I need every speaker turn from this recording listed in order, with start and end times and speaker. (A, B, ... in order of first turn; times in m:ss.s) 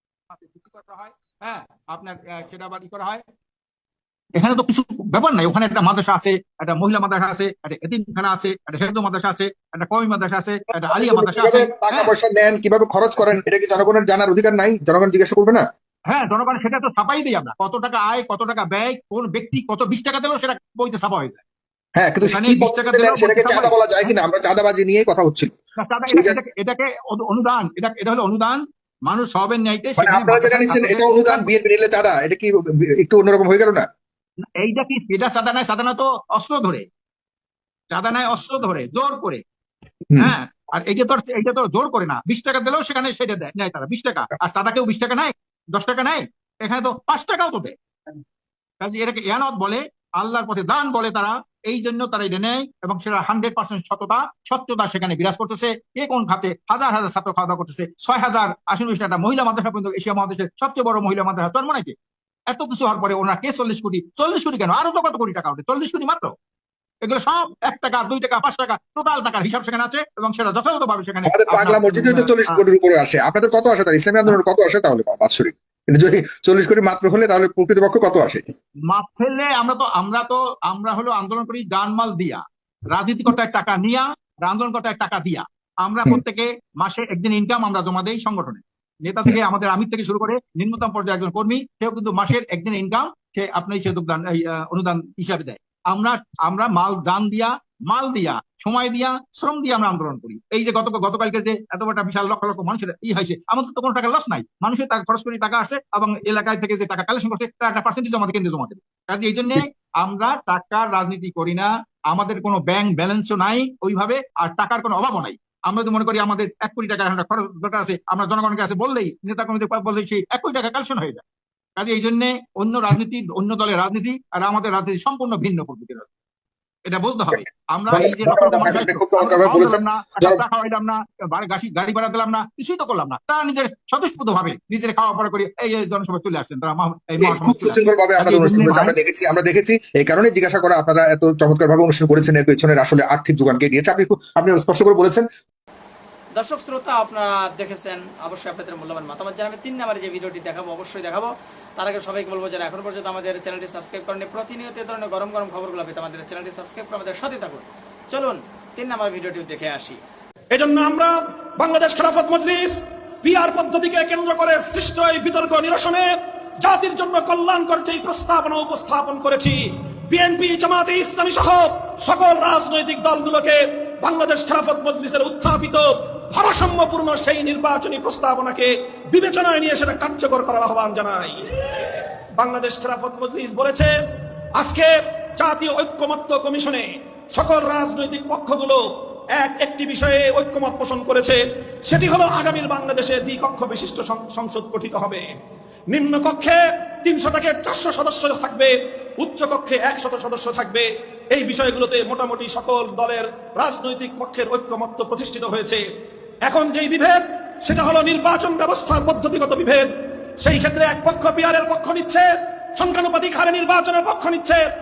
0:00.3-0:03.2 A
0:04.4-0:12.1 A
0:10.8-0:15.7 B
0:16.1-0:21.4 A
0:22.0-0:25.5 B
0:22.2-0:24.1 A
0:25.8-0:31.5 A
0:26.1-0:26.4 B
0:30.0-0:33.9 B
0:34.6-0:36.9 A
0:37.9-0:39.4 A
0:40.2-0:47.8 A
0:48.8-1:02.0 A
1:02.5-1:06.3 A
1:07.0-1:12.6 A
1:11.3-1:18.5 B
1:18.9-2:01.2 A
2:01.8-2:06.1 A
2:06.8-2:19.0 A
2:07.9-2:10.4 B
2:17.2-2:25.3 B
2:26.4-2:40.0 C
2:40.5-2:46.1 D
2:46.6-3:01.4 D
3:02.4-3:03.9 D
3:04.6-3:08.8 D
3:09.4-3:15.3 D
3:15.9-3:25.8 D
3:26.4-3:34.6 D